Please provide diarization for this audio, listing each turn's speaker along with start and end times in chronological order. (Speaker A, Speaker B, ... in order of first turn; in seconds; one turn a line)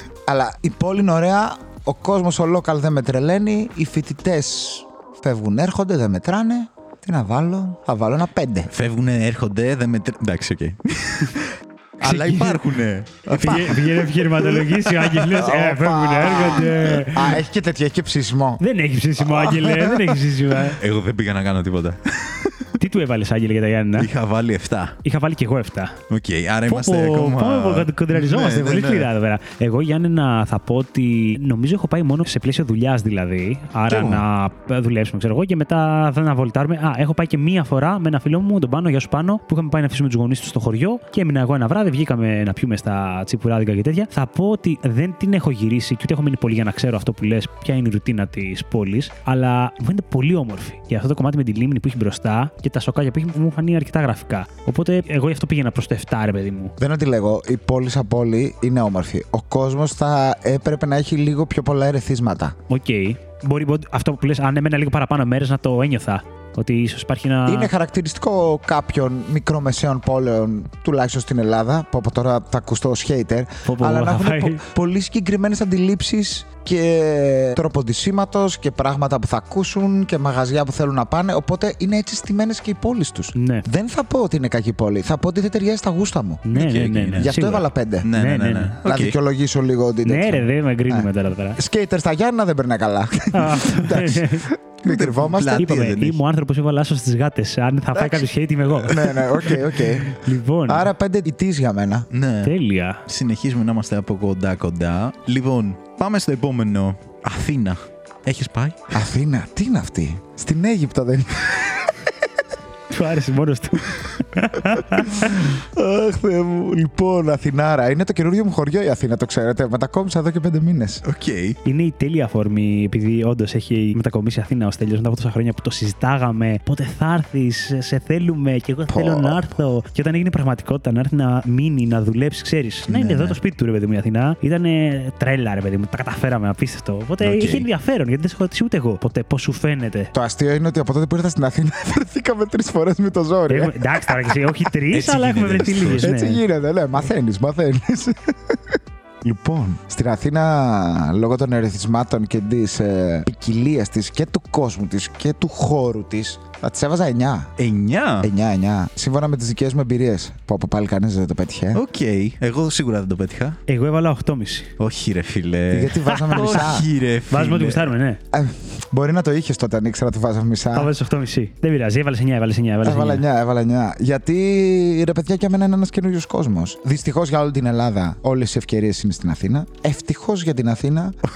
Speaker A: 0.3-8.7
Speaker B: 8.7-15.1
Speaker C: 12.0-12.7
Speaker C: 13.3-17.4
Speaker A: 15.3-18.6
Speaker C: 18.6-20.8
Speaker B: 19.6-20.1
Speaker B: 20.7-22.7
Speaker C: 22.8-24.1
Speaker B: 24.0-25.0
Speaker C: 25.0-26.0
Speaker B: 26.1-29.1
Speaker C: 26.7-56.8
Speaker B: 33.9-34.2
Speaker A: 56.8-62.6
Speaker C: 62.7-67.7
Speaker A: 67.5-86.5
Speaker C: 73.7-74.6
Speaker C: 83.3-83.7
Speaker C: 86.5-88.8
Speaker B: 86.5-87.3
Speaker A: 87.2-88.1
Speaker B: 88.0-89.2
Speaker A: 88.8-95.8
Speaker C: 90.0-91.6
Speaker C: 93.3-94.5
Speaker B: 94.8-96.2
Speaker C: 95.6-100.9
Speaker A: 98.8-102.1
Speaker B: 98.9-99.6
Speaker B: 102.1-102.5
Speaker C: 102.4-103.0
Speaker B: 103.1-109.0
Speaker A: 108.9-112.1
Speaker C: 112.9-115.4
Speaker A: 115.1-121.0
Speaker B: 121.0-121.6
Speaker C: 121.7-140.1
Speaker A: 128.9-129.5
Speaker B: 132.9-133.2
Speaker B: 137.2-137.7
Speaker A: 140.1-144.4
Speaker C: 143.5-146.4
Speaker B: 144.9-146.1
Speaker A: 145.9-157.5
Speaker B: 157.6-158.3
Speaker A: 158.2-161.8
Speaker B: 161.7-163.6
Speaker C: 163.7-164.7
Speaker B: 164.8-167.9
Speaker A: 165.7-166.9
Speaker C: 166.1-166.8
Speaker C: 167.3-168.2
Speaker A: 168.3-170.9
Speaker C: 170.7-173.2
Speaker A: 172.8-181.2